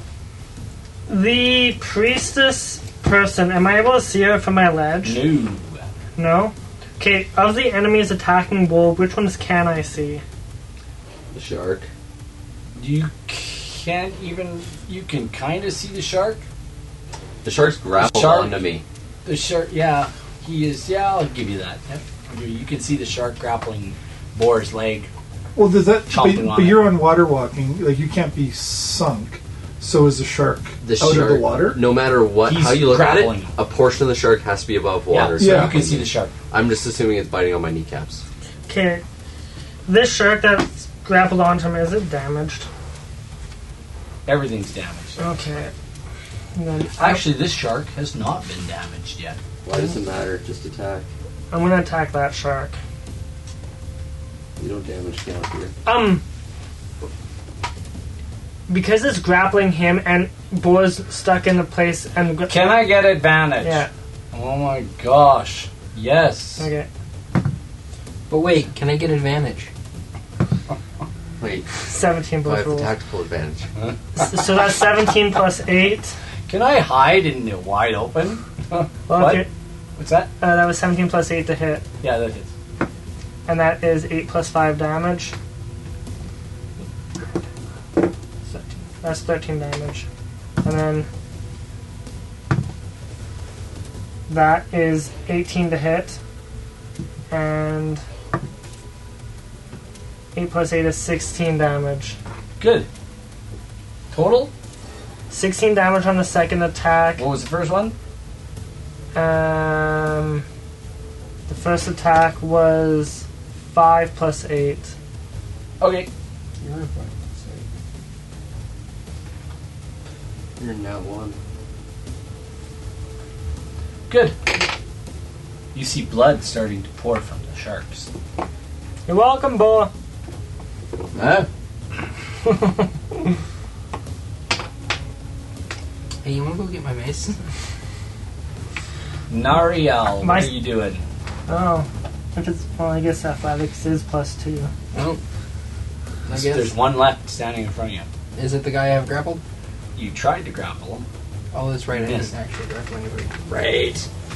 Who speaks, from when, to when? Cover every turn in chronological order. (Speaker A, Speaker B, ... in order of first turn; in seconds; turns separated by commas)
Speaker A: 1.1-5.2, Speaker B: 5.0-5.9, Speaker A: 6.2-10.2, Speaker C: 11.3-11.9, Speaker B: 12.8-16.4, Speaker C: 17.4-18.8, Speaker B: 18.0-18.6, Speaker B: 19.2-25.1, Speaker D: 25.6-31.8, Speaker B: 26.1-26.9, Speaker C: 30.8-38.2, Speaker B: 32.4-33.5, Speaker B: 35.1-36.3, Speaker D: 35.4-35.7, Speaker A: 38.7-39.0, Speaker A: 39.9-42.7, Speaker B: 44.2-45.6, Speaker A: 45.2-45.7, Speaker A: 46.5-47.2, Speaker B: 47.0-49.4, Speaker C: 49.6-51.1, Speaker A: 51.5-52.8, Speaker C: 54.6-55.7, Speaker A: 55.8-56.2, Speaker A: 58.7-62.7, Speaker B: 62.5-66.7, Speaker A: 63.6-63.9, Speaker A: 66.6-66.9, Speaker E: 68.3-69.7, Speaker C: 71.4-71.7, Speaker A: 71.9-72.9, Speaker C: 72.4-73.7, Speaker A: 74.2-76.1, Speaker B: 76.5-79.4, Speaker A: 79.1-79.5, Speaker B: 80.0-80.3, Speaker A: 80.4-81.8, Speaker B: 82.0-82.5, Speaker A: 83.5-85.3, Speaker A: 88.5-90.1, Speaker A: 90.6-91.1, Speaker A: 94.3-96.2, Speaker A: 97.3-98.0, Speaker A: 100.3-102.2, Speaker B: 102.6-102.9, Speaker B: 104.1-104.5, Speaker A: 105.3-107.2, Speaker B: 107.2-107.9, Speaker A: 109.1-110.4, Speaker A: 111.5-114.9, Speaker B: 115.8-116.1, Speaker E: 116.6-117.6, Speaker C: 120.6-121.3, Speaker B: 124.1-124.4, Speaker B: 125.7-128.1, Speaker A: 129.1-129.9, Speaker C: 131.1-131.5, Speaker E: 136.2-137.4, Speaker B: 139.3-141.0, Speaker A: 140.2-140.5, Speaker A: 141.5-144.7, Speaker E: 144.9-145.2, Speaker E: 146.2-146.7, Speaker B: 146.3-148.1, Speaker E: 148.3-149.4, Speaker B: 149.9-151.1, Speaker E: 151.5-154.1, Speaker B: 151.9-152.3